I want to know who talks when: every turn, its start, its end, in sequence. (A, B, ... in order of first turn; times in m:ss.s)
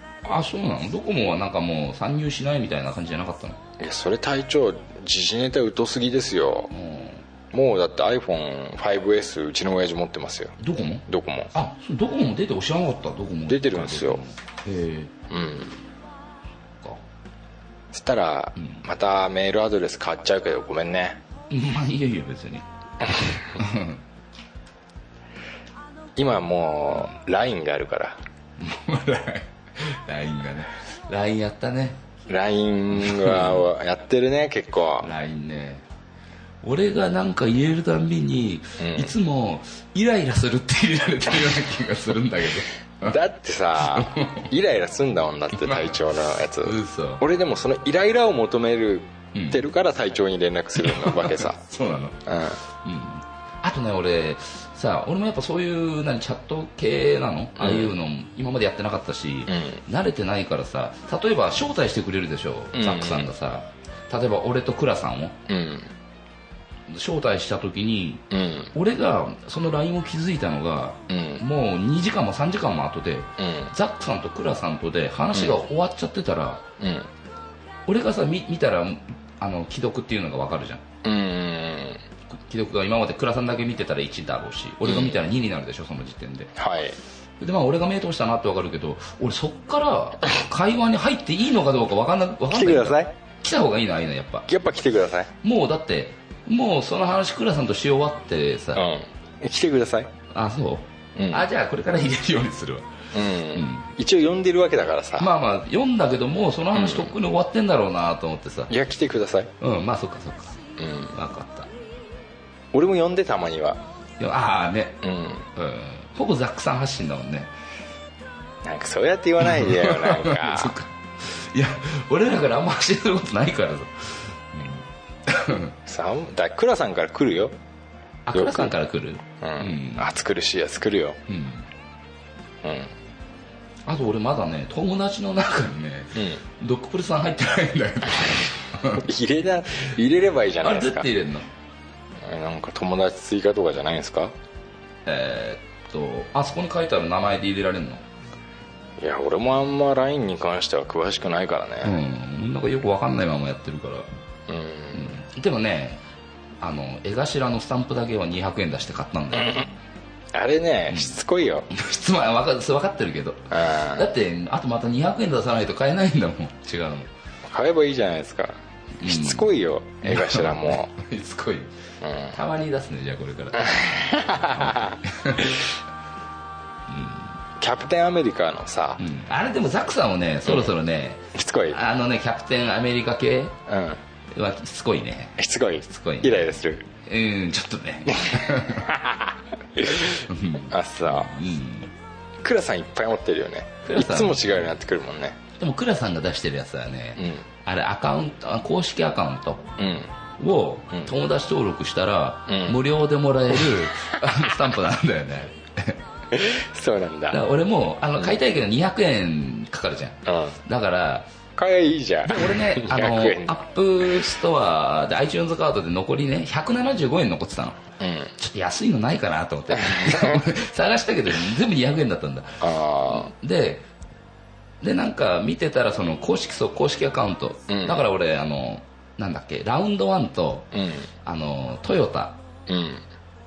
0:00.2-0:03.6 A
0:03.8-0:06.7 B
0:06.7-0:07.2 A
0:07.5-0:10.6 B
0:10.6-0:15.1 A
0:11.1-0:11.5 B
0:13.5-0:14.2 B
0:15.3-0:15.7 B
0:17.9-0:21.2 B
0:18.6-0:18.8 A
0:21.5-0:22.6 A
0:23.5-0:24.0 A
0:26.2-0:28.2 B
0:28.6-0:32.0 A
0:32.3-0:35.1 B
0:33.0-0:33.6 A
0:35.0-0:35.8 A
0:36.6-0:43.2 A
0:38.8-0:39.1 B
0:43.0-0:51.6 B
0:43.8-0:44.4 A
0:45.6-0:45.9 A
0:46.6-0:47.2 A
0:49.3-0:49.6 A
0:50.8-1:05.4 A
0:52.2-0:52.6 B
0:57.6-0:57.9 B
0:59.5-0:59.8 B
1:02.7-1:03.3 B
1:05.5-1:05.9 B
1:06.9-1:16.6 A
1:08.3-1:08.7 B
1:11.1-1:11.4 B
1:13.4-1:13.7 B
1:15.3-1:15.6 B
1:16.8-1:17.1 B
1:17.9-1:20.8 A
1:21.0-1:22.0 B
1:22.3-1:26.5 A
1:24.8-1:25.2 B
1:26.6-1:27.0 B
1:27.4-1:34.5 A
1:32.5-1:33.1 B
1:34.5-1:35.3 B
1:35.4-1:38.9 A
1:38.7-1:40.1 B
1:40.3-1:43.9 A
1:41.2-1:41.5 B
1:43.1-1:45.3 B
1:45.2-1:48.7 A
1:46.7-1:47.1 B
1:48.7-1:49.5 B
1:49.6-1:51.7 A
1:50.8-1:51.1 B
1:52.7-1:53.8 B
1:54.2-1:55.0 A
1:55.0-1:55.5 B
1:55.5-1:57.5 A
1:58.6-2:00.7 B
1:59.4-2:05.8 A
2:05.8-2:07.6 B
2:08.2-2:10.1 A
2:08.3-2:08.7 B
2:09.4-2:11.2 B
2:11.3-2:11.7 A
2:12.6-2:12.9 B
2:13.8-2:19.1 A
2:16.1-2:16.4 B
2:19.0-2:21.1 B
2:20.6-2:21.5 A
2:22.2-2:24.3 B
2:25.0-2:28.0 A
2:29.0-2:32.0 B
2:31.8-2:34.1 A
2:34.5-2:35.2 B
2:34.9-2:36.0 A
2:36.6-2:39.6 A
2:39.4-2:39.7 B
2:40.3-2:41.7 B
2:40.9-2:41.2 A
2:41.7-2:47.1 A
2:43.5-2:44.1 B
2:47.4-2:50.9 B
2:49.0-2:49.5 A
2:50.0-2:51.7 A
2:52.0-2:52.4 B
2:52.2-2:55.7 A
2:53.8-2:55.0 B
2:56.9-2:57.3 A
2:57.6-2:59.0 B
2:59.0-3:03.6 A
3:00.5-3:00.7 B
3:01.3-3:01.8 B
3:03.7-3:04.0 B
3:04.3-3:09.0 A
3:05.4-3:06.8 B
3:08.2-3:09.2 B
3:09.8-3:11.3 B
3:09.9-3:11.9 A
3:12.4-3:15.4 B
3:13.8-3:14.6 A
3:15.6-3:19.7 A
3:17.2-3:17.4 B
3:19.8-3:20.1 B
3:20.4-3:26.0 A
3:22.5-3:22.8 B
3:26.3-3:27.4 B
3:27.3-3:31.3 A
3:30.2-3:30.6 B
3:31.6-3:33.6 B
3:32.2-3:37.8 A
3:38.0-3:38.3 B
3:38.4-3:43.8 A
3:39.7-3:40.4 B
3:42.6-3:43.3 B
3:44.8-3:50.7 A
3:47.7-3:48.0 B
3:50.7-3:51.1 B
3:51.2-3:52.4 A
3:52.7-3:53.0 B